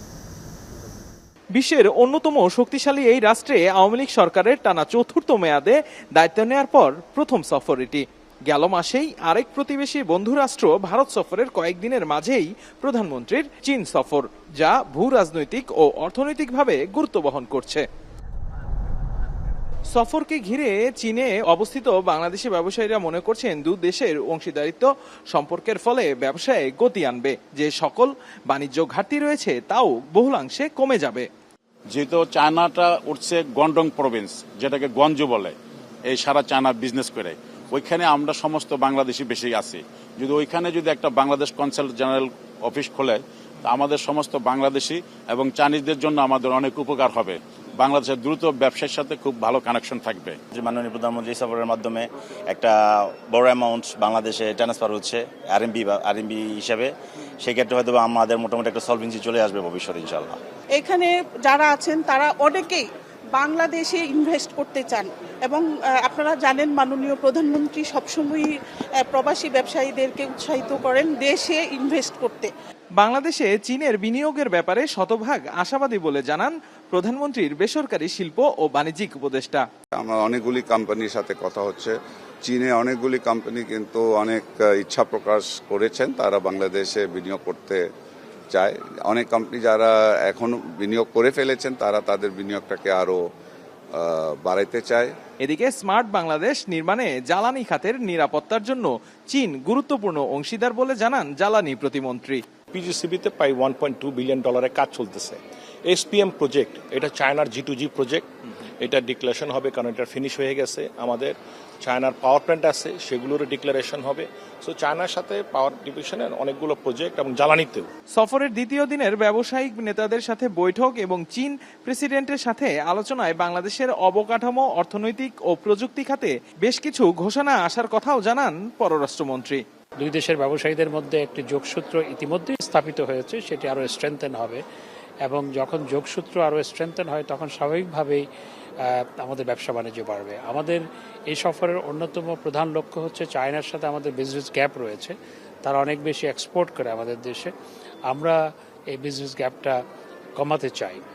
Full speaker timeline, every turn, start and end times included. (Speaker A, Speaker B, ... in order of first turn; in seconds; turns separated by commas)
Speaker A: 1.5-17.9, Speaker A: 19.9-31.3, Speaker B: 31.9-35.5, Speaker B: 36.1-50.4, Speaker C: 50.5-52.7, Speaker C: 53.3-60.4, Speaker D: 60.8-72.5, Speaker A: 73.0-79.7, Speaker E: 79.9-81.9, Speaker E: 82.4-87.8, Speaker E: 88.5-93.2, Speaker E: 94.0-95.1, Speaker A: 95.4-102.4, Speaker F: 102.7-108.3, Speaker F: 108.8-117.9, Speaker A: 118.2-129.6, Speaker G: 130.0-134.6, Speaker G: 135.2-138.2, Speaker G: 138.8-147.5, Speaker G: 148.1-148.4, Speaker G: 148.9-149.8, Speaker G: 150.4-151.0